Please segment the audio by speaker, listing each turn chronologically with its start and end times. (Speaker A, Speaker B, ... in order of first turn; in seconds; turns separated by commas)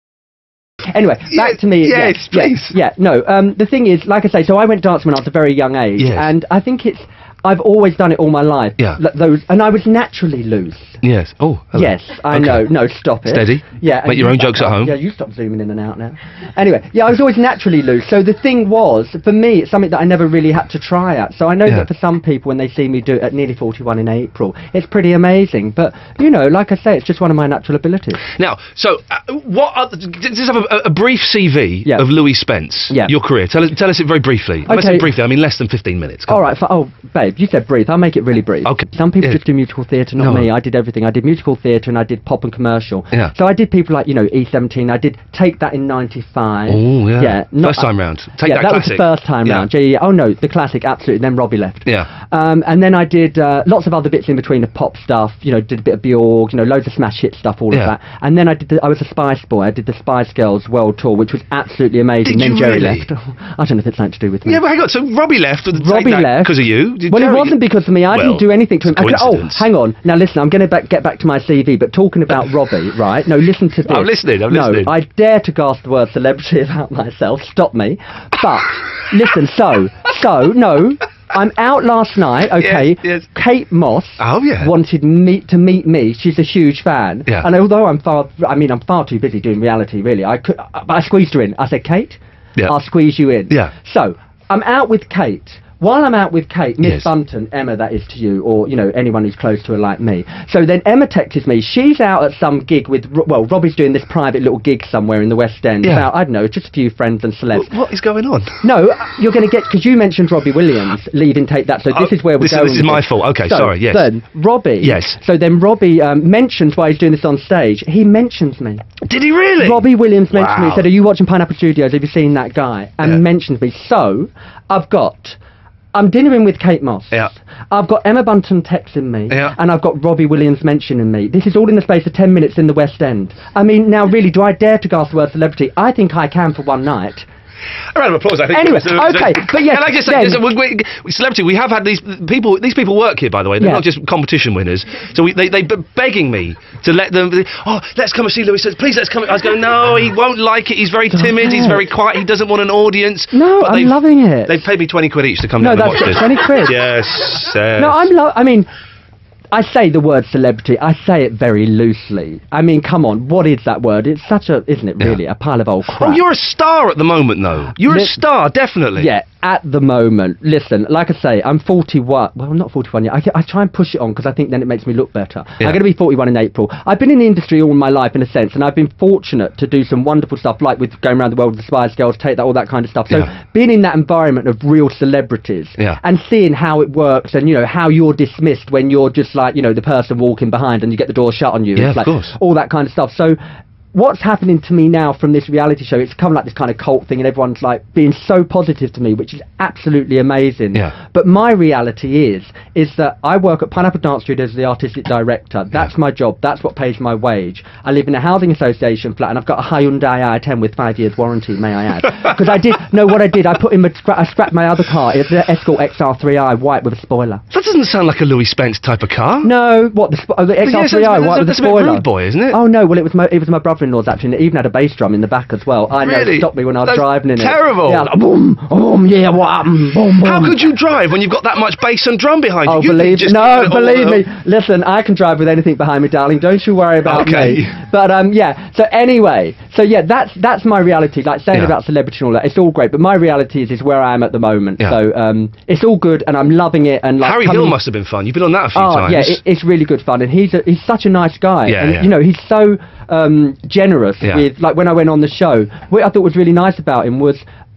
Speaker A: 0.9-11.0, Speaker B: 1.3-2.8, Speaker B: 6.0-6.3, Speaker B: 11.0-12.7, Speaker A: 11.8-28.2, Speaker B: 13.3-14.9, Speaker B: 28.4-36.4, Speaker A: 34.7-35.1, Speaker A: 36.3-64.6, Speaker B: 38.6-39.4, Speaker B: 40.2-40.5, Speaker B: 46.7-49.7, Speaker B: 62.2-63.1, Speaker B: 64.5-67.6, Speaker A: 65.7-107.7, Speaker B: 68.1-69.7, Speaker B: 73.9-74.9, Speaker B: 82.6-83.2, Speaker B: 84.2-84.7, Speaker B: 96.8-97.1, Speaker B: 105.8-106.1, Speaker B: 107.5-108.6, Speaker A: 108.6-118.8, Speaker B: 111.9-114.1, Speaker B: 114.8-115.2, Speaker B: 119.0-120.9, Speaker A: 119.6-125.4, Speaker A: 125.9-137.3, Speaker B: 137.9-158.1, Speaker A: 138.5-140.4, Speaker A: 151.1-151.8, Speaker A: 153.3-154.7, Speaker A: 155.6-156.8, Speaker A: 157.8-158.7, Speaker A: 159.5-166.2, Speaker B: 166.0-169.1, Speaker A: 167.8-168.2, Speaker A: 169.0-193.4, Speaker B: 191.8-192.3, Speaker A: 193.9-217.4, Speaker B: 217.5-219.5, Speaker A: 219.4-230.6, Speaker B: 220.6-222.6, Speaker B: 226.0-228.1, Speaker B: 230.2-234.2, Speaker A: 232.7-247.8, Speaker B: 237.0-237.8, Speaker B: 247.2-249.4, Speaker A: 248.8-257.4, Speaker B: 251.7-252.1